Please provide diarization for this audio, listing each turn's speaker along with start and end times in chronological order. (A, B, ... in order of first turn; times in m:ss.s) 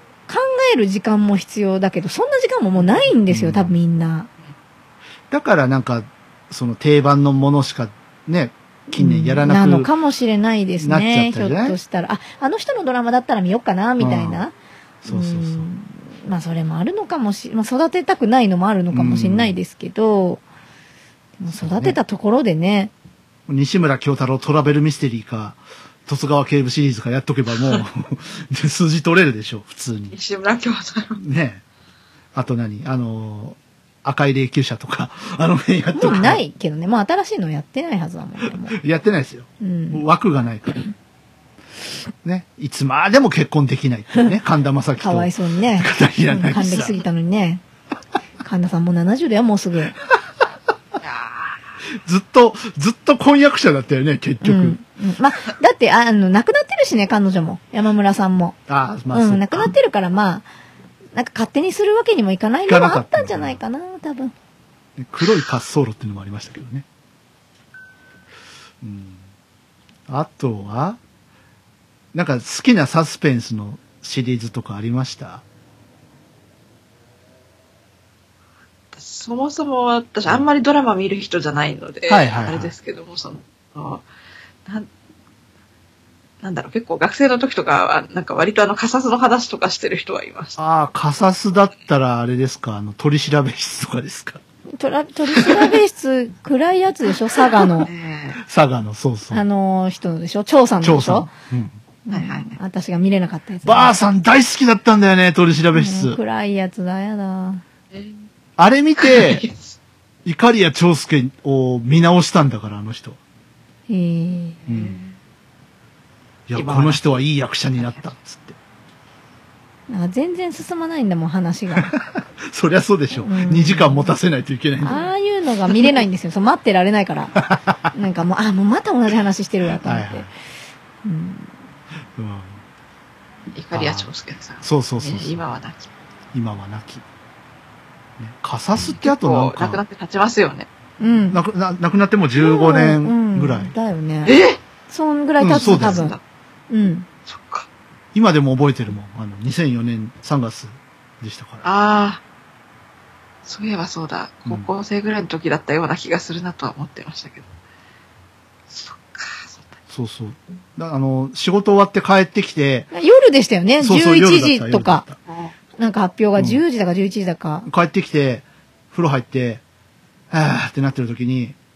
0:00.3-0:04.3 A
0:03.3-0:03.8 B
0:05.3-0:09.9 B
0:08.9-0:14.5 A
0:10.8-0:11.8 B
0:14.0-0:14.4 B
0:15.0-0:15.7 B
0:15.0-0:20.4 A
0:18.9-0:19.6 B
0:21.4-0:22.9 A
0:21.5-0:22.0 B
0:23.5-0:30.2 B
0:30.1-0:31.2 C
0:31.2-0:31.6 B
0:32.3-0:36.4 B
0:35.9-0:38.8 A
0:38.5-0:40.9 B
0:39.6-0:40.0 A
0:42.2-0:47.0 B
0:45.0-0:47.6 A
0:48.4-0:50.0 A
0:51.0-0:51.6 C
0:52.0-0:54.8 B
0:54.4-0:58.6 A
0:58.7-0:59.7 B
0:59.1-1:00.4 A
1:01.1-1:04.3 A
1:02.7-1:03.6 B
1:05.0-1:06.8 B
1:08.8-1:09.2 B
1:10.1-1:11.0 B
1:12.1-1:15.4 B
1:18.9-1:24.0 C
1:22.1-1:22.7 B
1:26.4-1:30.6 C
1:30.6-1:34.4 B
1:34.8-1:37.9 A
1:37.8-1:38.4 C
1:38.4-1:39.4 B
1:39.3-1:41.3 A
1:40.8-1:41.8 B
1:42.0-1:43.9 A
1:42.1-1:42.6 C
1:43.6-1:46.2 B
1:45.7-1:47.6 A
1:47.9-1:48.3 C
1:48.6-1:49.4 B
1:49.0-1:49.8 C
1:50.2-1:53.2 B
1:53.9-1:54.6 A
1:54.7-1:55.0 B
1:54.7-1:55.1 C
1:56.5-1:58.6 B
1:56.5-1:57.0 C
1:57.8-1:58.0 C
1:59.9-2:01.9 A
2:01.7-2:05.0 B
2:03.2-2:04.1 A
2:04.8-2:07.4 A
2:07.4-2:07.9 B
2:07.9-2:10.3 A
2:09.8-2:10.3 B
2:11.0-2:11.5 A
2:12.2-2:12.6 B
2:13.5-2:15.9 C
2:13.7-2:14.1 B
2:14.6-2:15.5 B
2:16.3-2:17.0 B
2:18.2-2:19.8 B
2:18.7-2:20.7 C
2:21.0-2:21.4 A
2:21.3-2:23.7 B
2:22.3-2:24.3 A
2:24.2-2:24.6 C
2:24.9-2:26.2 A
2:25.4-2:26.1 B
2:25.4-2:26.2 C
2:26.7-2:27.1 A
2:27.3-2:27.7 C
2:28.1-2:31.7 B
2:31.6-2:32.2 C
2:33.4-2:37.5 C
2:38.7-2:39.8 C
2:39.9-2:42.9 B
2:42.9-2:45.0 A
2:43.8-2:45.2 B
2:45.3-2:45.5 C
2:45.8-2:47.7 A
2:46.4-2:46.6 B
2:47.6-2:49.6 B
2:50.3-2:51.6 B